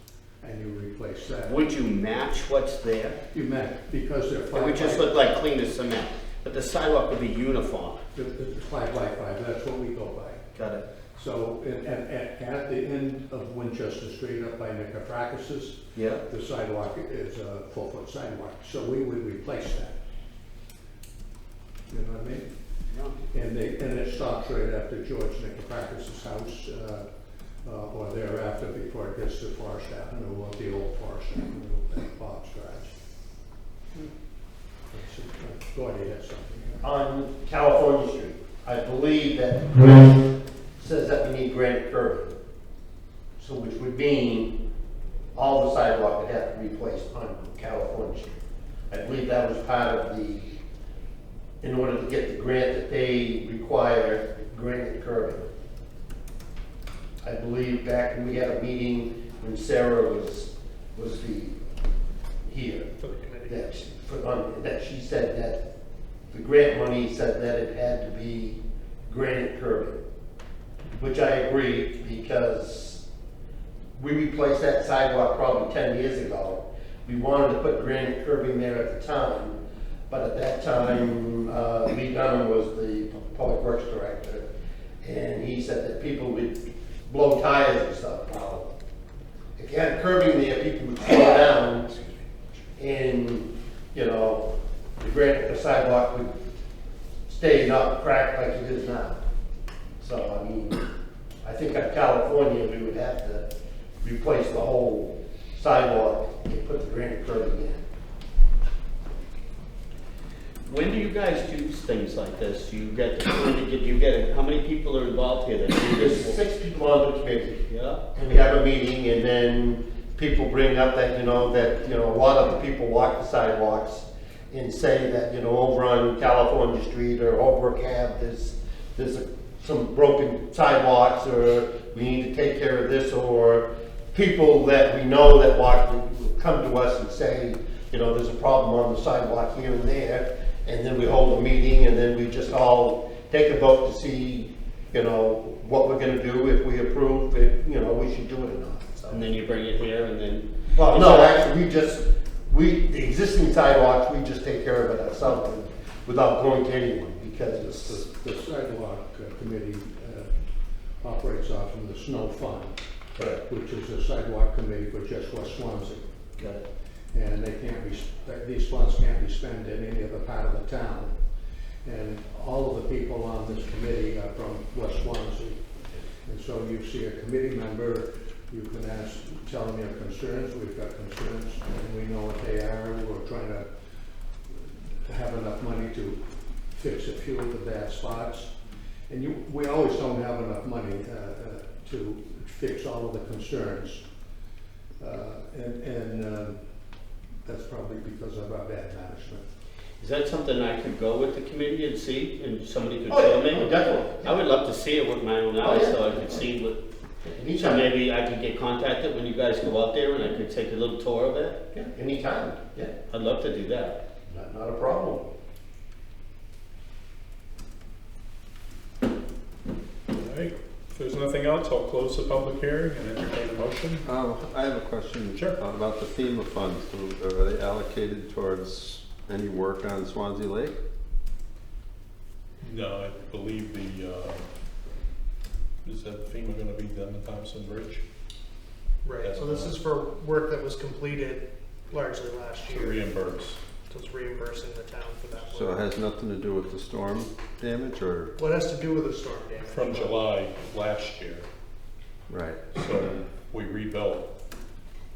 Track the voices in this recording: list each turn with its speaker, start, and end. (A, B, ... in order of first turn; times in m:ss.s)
0:00.4-0:01.6 A
0:01.4-0:03.2 B
0:03.3-0:05.3 A
0:04.5-0:08.0 B
0:08.1-0:10.4 A
0:10.6-0:10.8 B
0:11.2-0:20.0 A
0:15.9-0:16.2 B
0:21.9-0:22.5 A
0:23.3-0:27.1 A
0:27.6-0:32.9 A
0:34.9-0:36.8 A
0:36.8-0:42.4 C
0:43.4-0:44.6 C
0:45.4-0:48.4 C
0:48.9-0:50.6 C
0:51.6-0:55.5 C
0:57.2-1:01.6 C
1:02.4-1:02.9 C
1:03.0-1:03.8 D
1:03.5-1:05.6 C
1:06.3-1:10.0 C
1:11.0-1:13.0 C
1:14.0-1:24.5 C
1:25.0-1:28.7 C
1:29.6-1:32.0 C
1:32.8-1:36.4 C
1:37.3-1:39.2 C
1:40.0-1:40.8 C
1:41.4-1:43.5 C
1:44.0-1:47.8 C
1:50.7-1:56.4 B
1:55.9-2:29.3 C
1:57.7-1:58.0 B
2:29.1-2:31.5 B
2:30.7-2:38.0 C
2:37.7-2:40.3 A
2:41.0-2:42.8 A
2:43.4-2:46.1 A
2:46.4-2:46.7 B
2:47.1-2:51.2 A
2:51.8-2:55.6 A
2:56.2-3:03.7 A
3:04.5-3:08.5 A
3:09.1-3:14.0 A
3:15.0-3:16.6 A
3:17.4-3:19.4 A
3:20.0-3:26.8 B
3:23.1-3:24.5 C
3:25.6-3:26.5 C
3:27.2-3:27.9 C
3:27.6-3:31.6 B
3:31.7-3:33.0 C
3:33.1-3:34.0 B
3:34.3-3:35.3 C
3:40.1-3:44.0 E
3:44.0-3:50.8 F
3:52.6-3:54.5 E
3:55.8-3:58.0 E
3:59.0-4:03.1 D
3:59.2-3:59.8 E
4:02.7-4:03.6 E
4:03.9-4:05.8 D
4:05.4-4:08.3 F
4:08.4-4:10.2 D
4:09.6-4:11.5 E
4:12.3-4:12.6 F
4:12.7-4:14.3 E